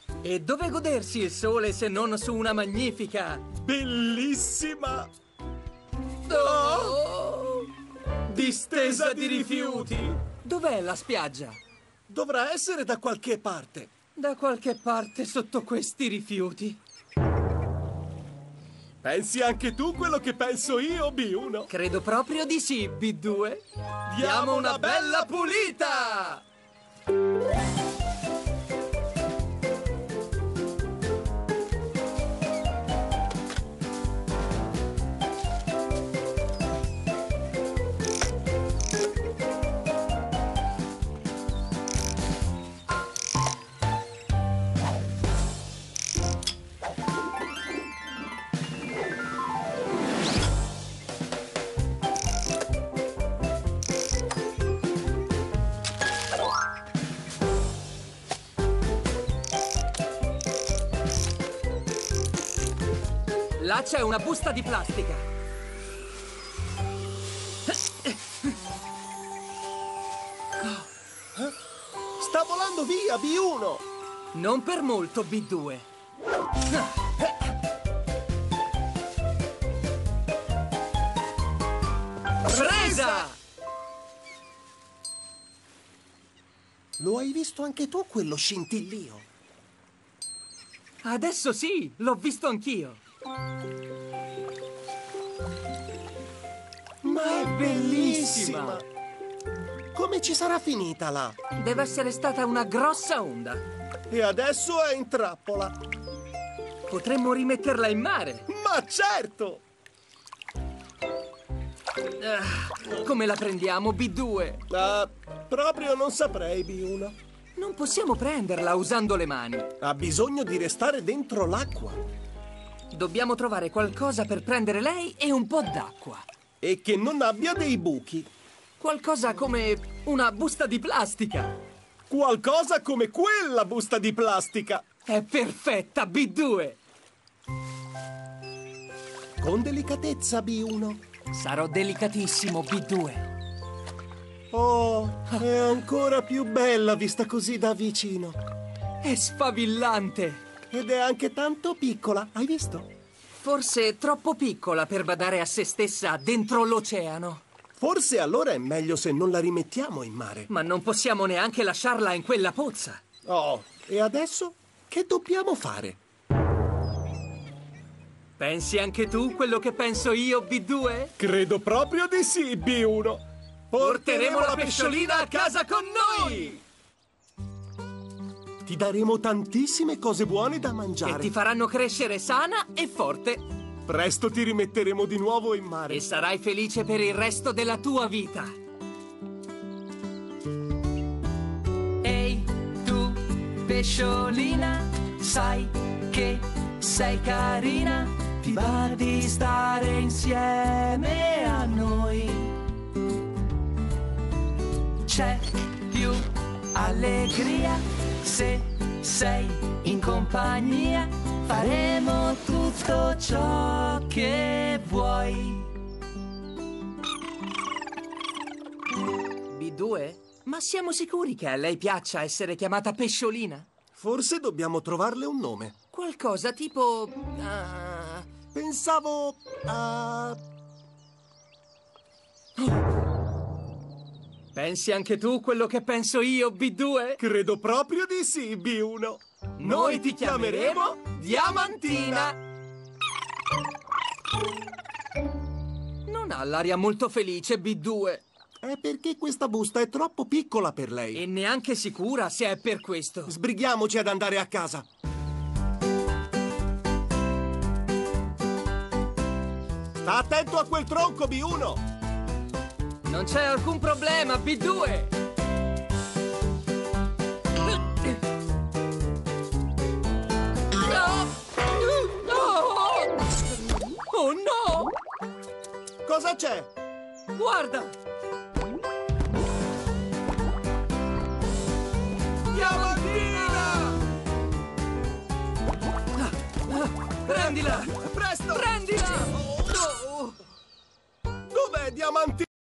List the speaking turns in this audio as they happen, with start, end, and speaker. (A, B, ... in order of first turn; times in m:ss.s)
0:00.2-0:03.5 A
0:03.6-0:05.1 B
0:06.3-0:07.7 A
0:06.3-0:07.0 B
0:08.3-0:11.6 A
0:08.3-0:10.2 B
0:12.1-0:13.9 B
0:14.2-0:16.8 A
0:19.0-0:21.7 B
0:21.7-0:26.4 A
0:24.1-0:26.2 B
1:03.6-1:05.3 A
1:08.0-1:08.5 A
1:12.2-1:13.8 B
1:14.3-1:15.9 A
1:22.5-1:23.4 A
1:22.5-1:23.2 B
1:27.0-1:29.2 B
1:31.0-1:33.0 A
1:37.0-1:38.8 B
1:37.0-1:38.8 A
1:40.0-1:41.4 B
1:41.6-1:43.6 A
1:44.1-1:45.8 B
1:46.9-1:48.5 A
1:48.5-1:49.6 B
1:52.2-1:54.6 A
1:54.7-1:57.2 B
1:57.6-1:59.7 A
1:59.8-2:02.0 B
2:02.9-2:06.3 A
2:06.6-2:08.3 B
2:08.8-2:11.5 A
2:12.1-2:14.8 B
2:15.1-2:16.8 A
2:19.4-2:21.0 B
2:21.3-2:23.3 A
2:24.5-2:28.4 B
2:29.0-2:30.4 A
2:30.7-2:32.9 B
2:33.4-2:37.4 A
2:37.8-2:40.5 B
2:40.5-2:43.0 A
2:43.2-2:46.0 B
2:48.4-2:51.1 A
2:51.2-2:56.6 B
2:53.8-2:56.6 A
2:58.6-3:01.3 B
3:01.0-3:03.4 A
3:03.9-3:06.0 B
3:05.9-3:08.5 A
3:12.0-3:22.6 A
3:25.0-3:35.7 A
3:39.5-3:43.7 A
3:44.0-3:45.7 B
3:45.9-3:48.3 A
3:48.5-3:50.4 B
3:54.5-3:57.2 A
3:57.2-4:02.3 B
3:59.6-4:02.4 A
4:06.1-4:08.2 A
4:08.6-4:11.2 B
4:11.2-4:13.4 A
4:13.3-4:14.8 B
4:20.0-4:21.8 B
4:23.0-4:25.1 A
4:30.8-4:33.2 A
4:34.1-4:34.9 A
4:36.0-4:36.7 B
4:37.3-4:37.9 A
4:42.5-4:44.0 A
4:42.5-4:44.0 B
4:46.2-4:48.0 A
4:47.3-4:49.6 B
4:48.5-4:50.4 A
4:51.5-4:52.5 B